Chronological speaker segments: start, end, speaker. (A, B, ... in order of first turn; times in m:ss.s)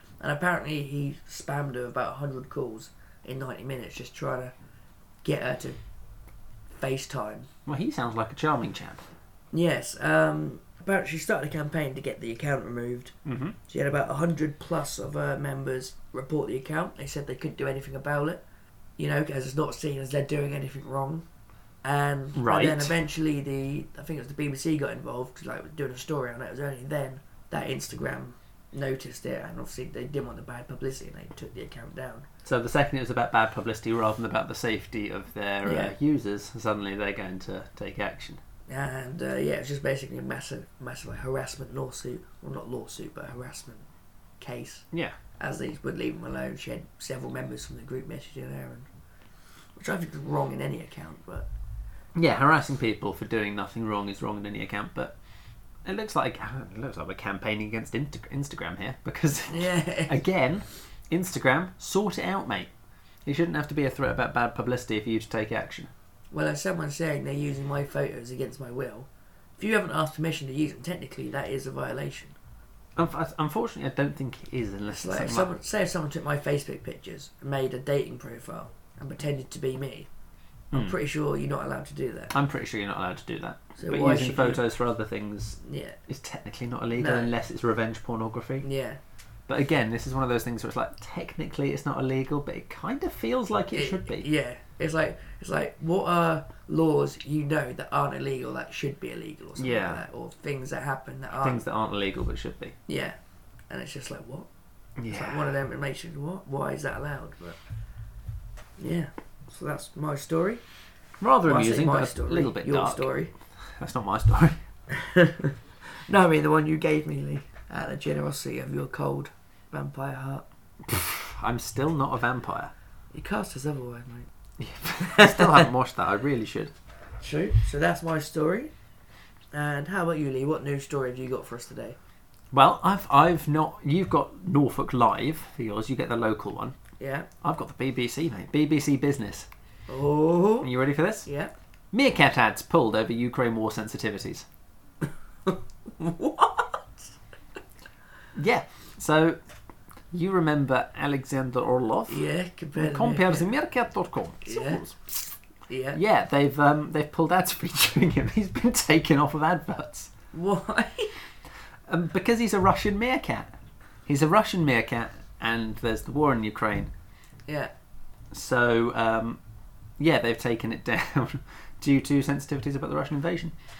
0:00.2-0:04.5 A
0:05.2-0:05.8 A
0:06.7-0:07.5 A
0:07.6-0:09.0 B
0:09.5-0:13.1 A
0:13.2-0:13.6 B
0:13.7-0:18.4 A
0:19.0-0:21.2 A
0:21.8-0:32.2 A
0:22.3-0:22.9 B
0:32.4-0:38.4 B
0:35.6-0:35.9 A
0:38.7-0:43.8 A
0:44.4-0:44.8 A
0:45.4-0:48.9 A
0:49.8-0:51.5 A
0:52.1-0:55.2 B
0:55.8-1:02.7 B
0:59.5-1:00.2 A
1:03.2-1:05.9 B
1:06.3-1:12.3 A
1:13.0-1:15.5 B
1:14.9-1:20.1 A
1:20.7-1:22.3 A
1:22.3-1:28.6 B
1:23.8-1:24.6 A
1:25.6-1:26.0 A
1:27.0-1:27.3 A
1:28.6-1:29.0 A
1:29.5-1:34.2 B
1:33.7-1:41.6 A
1:39.6-1:40.0 B
1:41.4-1:42.7 B
1:42.9-1:43.2 A
1:43.7-1:44.5 A
1:45.0-1:45.5 B
1:45.1-1:47.6 A
1:48.8-1:50.6 A
1:51.2-1:53.1 B
1:51.4-1:53.3 A
1:53.6-1:54.6 B
1:54.9-2:00.4 A
2:00.8-2:02.7 B
2:03.1-2:04.3 A
2:04.6-2:06.7 B
2:05.0-2:05.6 A
2:07.2-2:08.7 A
2:09.5-2:12.0 A
2:12.5-2:16.8 B
2:17.0-2:17.3 A
2:17.4-2:19.5 B
2:19.9-2:20.7 A
2:20.6-2:21.3 B
2:21.2-2:21.5 A
2:21.9-2:24.4 B
2:25.4-2:27.1 A
2:28.3-2:29.4 B
2:30.1-2:35.0 B
2:32.1-2:33.5 A
2:34.4-2:34.8 A
2:35.7-2:36.0 A
2:35.9-2:40.1 B
2:40.3-2:41.1 A
2:41.9-2:43.5 B
2:44.0-2:46.9 B
2:48.3-2:49.4 B
2:50.0-2:53.5 B